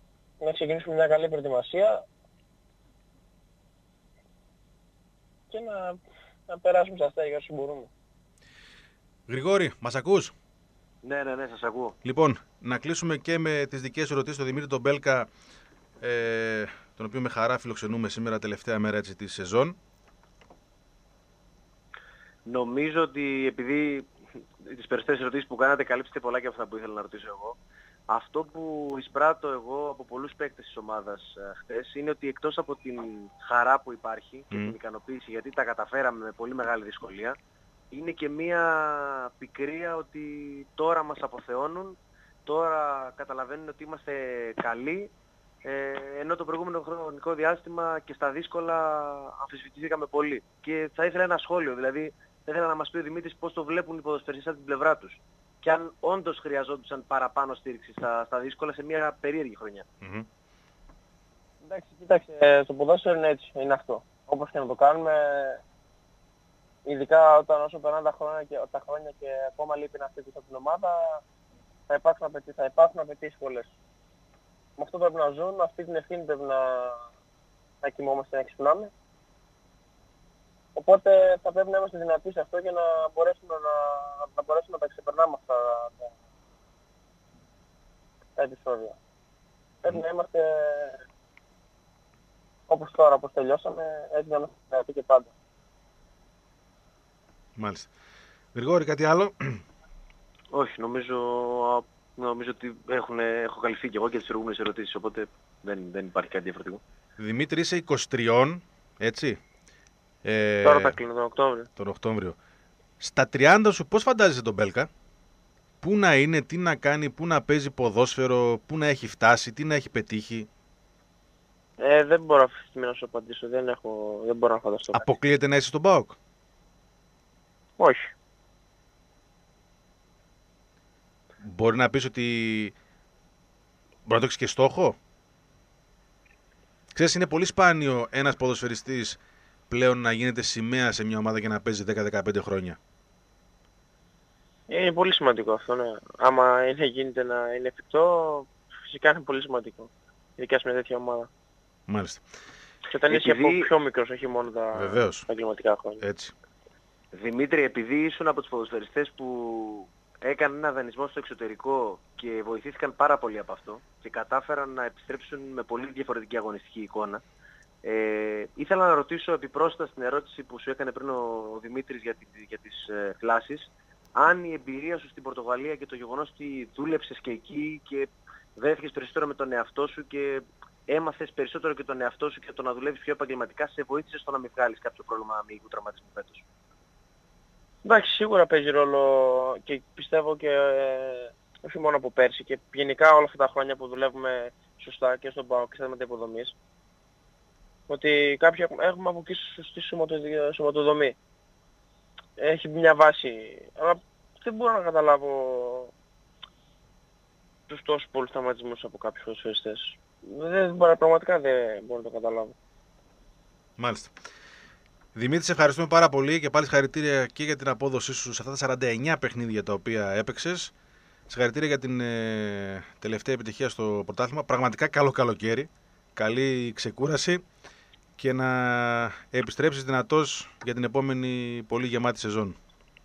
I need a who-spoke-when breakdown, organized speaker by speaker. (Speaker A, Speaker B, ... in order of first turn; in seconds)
Speaker A: 0.4-2.0, 5.5-7.9, 61.6-65.6, 66.8-71.2, 71.9-73.7, 74.8-77.0, 77.8-78.9, 80.7-86.1, 88.4-89.0, 89.8-91.0, 92.7-95.3, 110.6-111.7, 121.8-125.1, 127.8-128.1, 144.7-151.3, 152.9-156.0, 187.8-196.5, 197.9-201.2, 202.4-205.9, 207.7-212.5
Speaker B: 9.3-10.3, 12.0-15.3, 16.0-19.8, 34.5-34.8, 60.0-60.3, 97.6-97.9, 98.5-99.6, 107.2-109.4, 110.2-111.0, 111.8-112.4, 113.0-114.9, 115.8-120.5, 124.9-126.2, 131.4-132.7, 134.1-134.9, 136.9-139.2, 139.7-142.8, 151.9-152.2, 154.7-155.3, 156.0-156.3, 213.8-214.1, 215.1-220.7, 221.3-227.4, 228.2-232.6
Speaker C: 11.0-11.9, 22.4-24.1, 24.6-27.6, 28.1-37.4, 37.9-45.1, 45.6-59.8, 100.5-106.8, 153.1-153.7, 157.1-167.2, 167.8-186.4